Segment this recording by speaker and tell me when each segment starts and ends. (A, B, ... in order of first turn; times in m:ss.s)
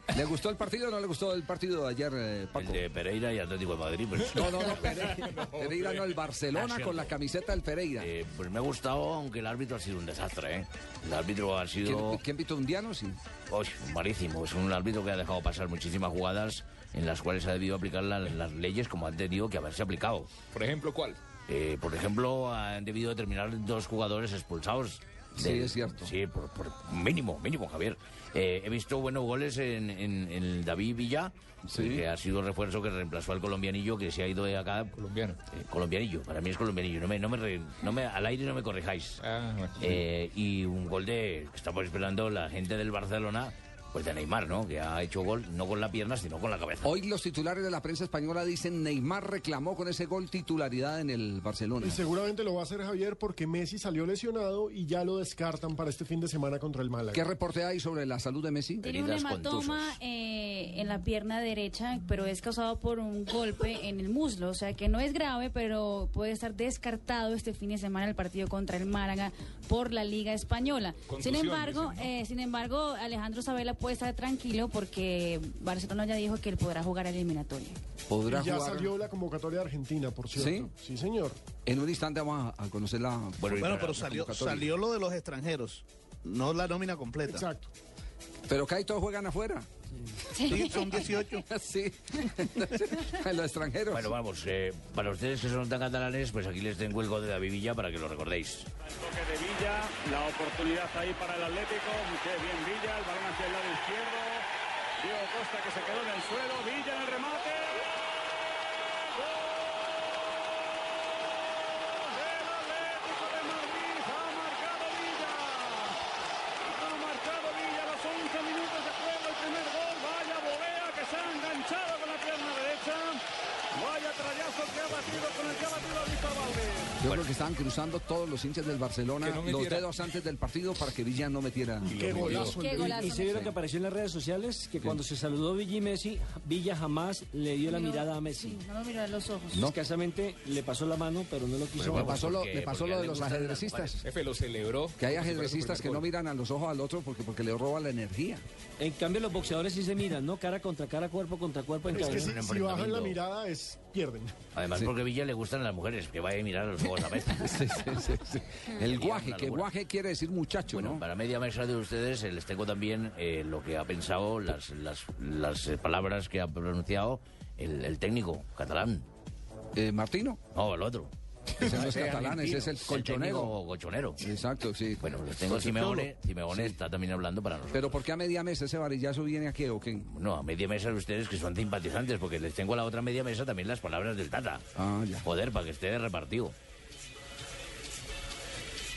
0:00.1-0:02.8 A
0:02.6-0:05.0 B
0:04.3-0:08.1 A
0:05.2-0:06.1 C
0:06.5-0:07.1 B
0:08.0-0:12.2 B
0:11.8-0:13.2 A
0:13.5-0:20.3 B
0:20.5-0:21.2 C
0:21.5-0:34.9 B
0:25.4-0:26.1 A
0:31.7-0:32.0 A
0:35.0-0:35.4 C
0:35.5-0:39.2 B
0:39.2-0:40.0 C
0:39.8-0:47.0 B
0:46.8-0:52.0 A
0:51.8-0:57.3 D
0:57.1-0:58.8 A
0:58.8-1:17.8 E
0:58.8-1:00.0 B
1:11.1-1:12.1 C
1:18.1-1:18.9 A
1:18.3-1:21.4 D
1:20.3-1:20.7 A
1:21.6-1:24.7 A
1:23.4-1:24.2 B
1:23.5-1:27.5 F
1:27.3-1:27.7 D
1:28.5-1:29.7 A
1:30.3-1:31.1 E
1:30.4-1:31.4 F
1:31.5-1:34.1 A
1:33.9-1:38.7 B
1:38.8-1:44.4 G
1:45.0-1:47.8 G
1:49.2-1:49.7 G
1:51.6-1:56.0 G
1:56.6-2:03.2 G
2:03.7-2:07.0 G
2:07.0-2:12.5 A
2:07.0-2:07.3 C
2:09.2-2:09.9 C
2:11.8-2:13.1 D
2:11.9-2:12.6 C
2:12.4-2:13.5 E
2:12.7-2:18.6 H
2:17.6-2:19.7 E
2:19.5-2:22.4 H
2:21.8-2:24.0 B
2:21.9-2:24.0 A
2:24.0-2:26.1 C
2:25.0-2:28.4 A
2:28.8-2:32.3 H
2:31.8-2:33.2 B
2:31.9-2:34.3 D
2:34.5-2:38.0 B
2:37.3-2:41.0 A
2:38.8-2:39.7 B
2:40.7-2:49.0 B
2:49.7-2:50.4 A
2:50.5-2:54.2 B
2:51.6-2:53.6 A
2:54.2-2:56.7 A
2:55.0-2:58.0 B
2:57.7-3:00.1 A
3:00.0-3:04.6 B
3:04.8-3:05.3 A
3:05.2-3:06.5 B